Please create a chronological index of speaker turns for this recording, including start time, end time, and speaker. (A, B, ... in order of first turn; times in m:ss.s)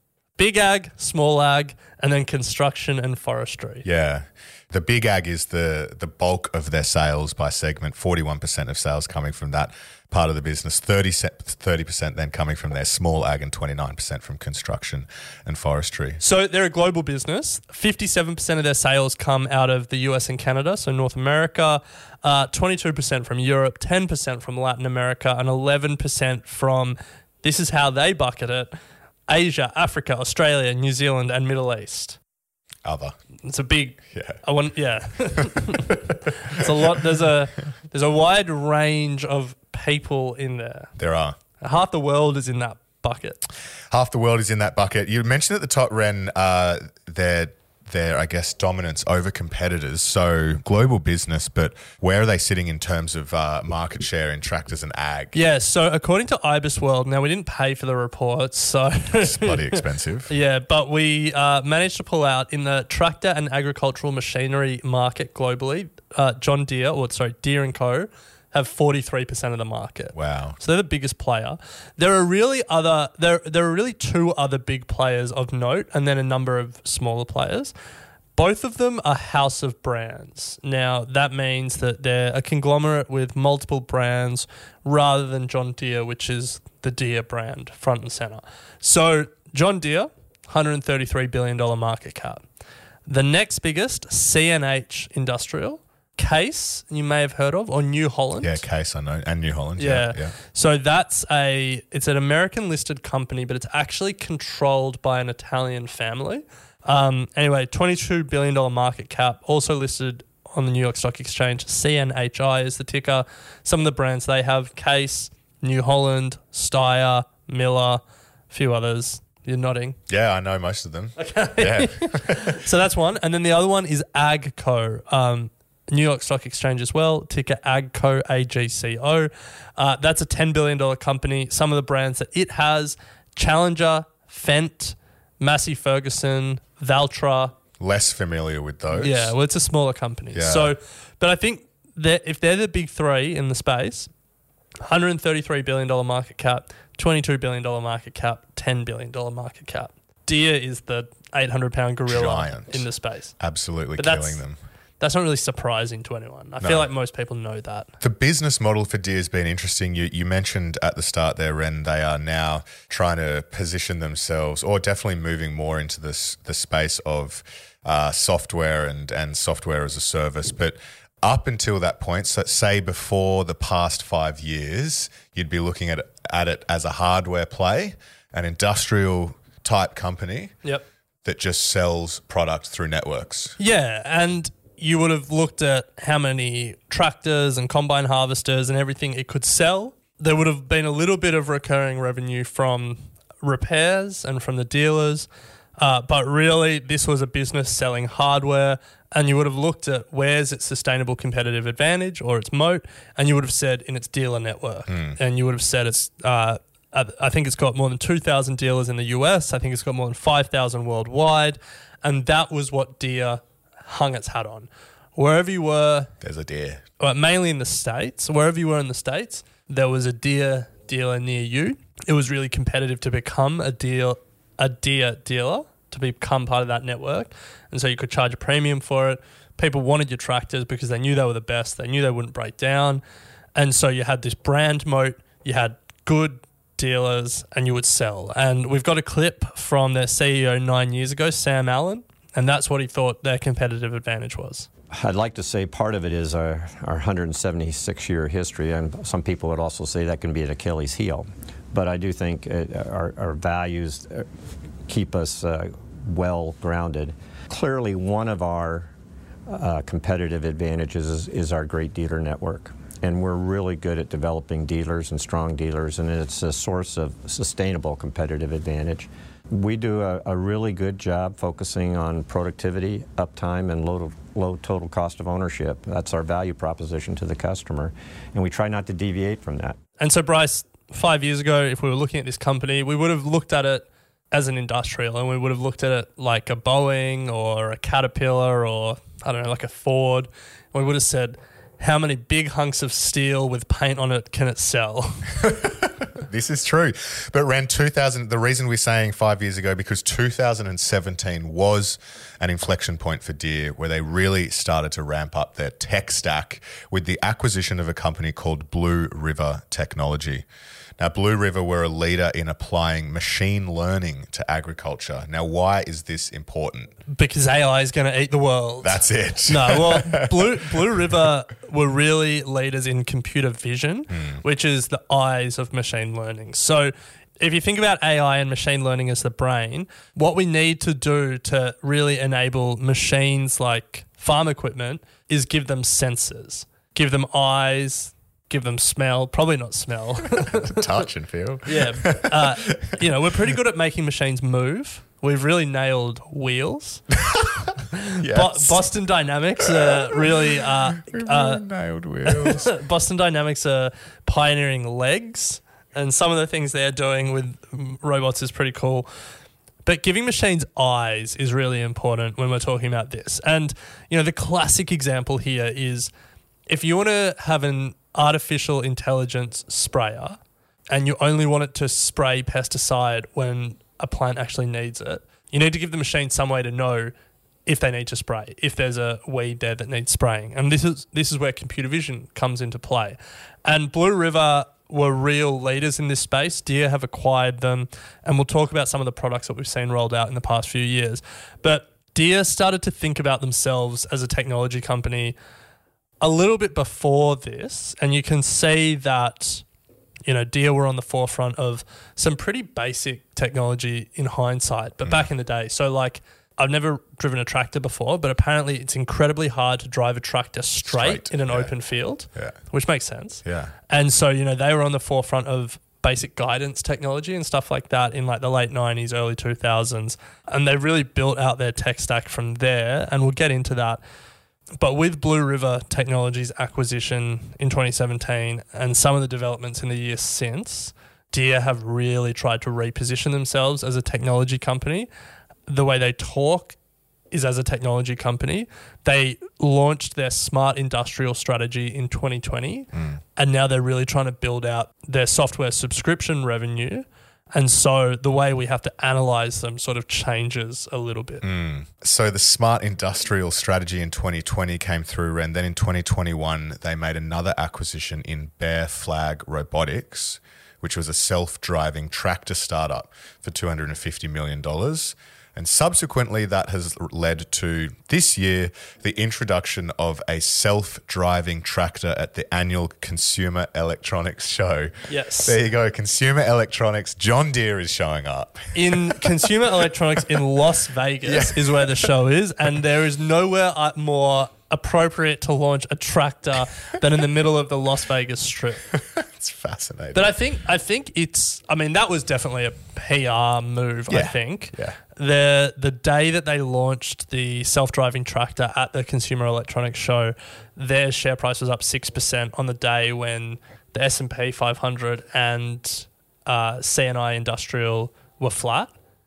0:00.4-0:03.8 A
0:03.8-0:16.2 B
0:16.2-0:28.8 A
0:29.3-0:32.2 A
0:32.8-0:33.2 B
0:33.4-0:35.9 A
0:34.1-0:34.4 B
0:35.7-0:36.9 B
0:36.5-0:40.9 A
0:41.0-0:41.4 B
0:41.6-0:43.4 A
0:43.9-0:55.4 B
0:55.3-1:17.7 A
0:59.2-1:00.3 B
1:10.1-1:10.6 B
1:18.4-1:32.4 A
1:33.0-1:38.6 A
1:38.4-1:40.3 B
1:39.8-2:00.0 A
2:00.1-2:02.6 B
2:01.2-2:17.5 A
2:17.8-2:19.3 B
2:18.9-2:24.1 A
2:20.3-2:20.8 B
2:24.8-2:33.3 A
2:32.1-2:34.6 B
2:34.0-2:34.4 A
2:35.0-2:37.9 A
2:36.6-2:36.9 B
2:38.0-3:00.6 B
3:01.2-3:03.6 B
3:03.6-3:36.1 A
3:24.9-3:25.2 B
3:36.2-3:36.8 B
3:37.0-3:53.0 A
3:53.5-4:04.7 A
4:04.9-4:14.3 C
4:14.9-4:18.9 C
4:19.5-4:39.8 C
4:40.0-4:55.3 A
4:55.4-5:10.4 B
5:11.0-5:16.9 B
5:17.1-5:41.0 A
5:18.8-5:21.1 B
5:24.1-5:24.4 B
5:40.3-5:42.9 B
5:41.6-5:47.0 A
5:47.3-5:47.6 B
5:47.9-5:51.6 A
5:48.2-5:48.8 B
5:49.6-5:52.7 B
5:52.2-5:59.1 A
5:59.8-6:06.1 A
6:06.7-6:10.4 A
6:10.9-6:17.1 A
6:17.6-6:35.4 A
6:36.2-6:39.6 A
6:40.3-7:04.0 A
6:45.0-6:45.3 B
6:50.8-6:51.7 B
6:52.3-6:52.6 B
6:53.4-6:53.7 B
7:04.8-7:15.1 A
7:15.7-7:16.8 A
7:17.3-7:31.4 A
7:22.9-7:23.2 B
7:31.4-7:59.6 B
7:55.1-7:55.5 A
7:58.7-8:08.9 A
8:01.2-8:02.1 B
8:08.9-8:10.3 B
8:10.1-8:28.9 A
8:14.1-8:15.0 B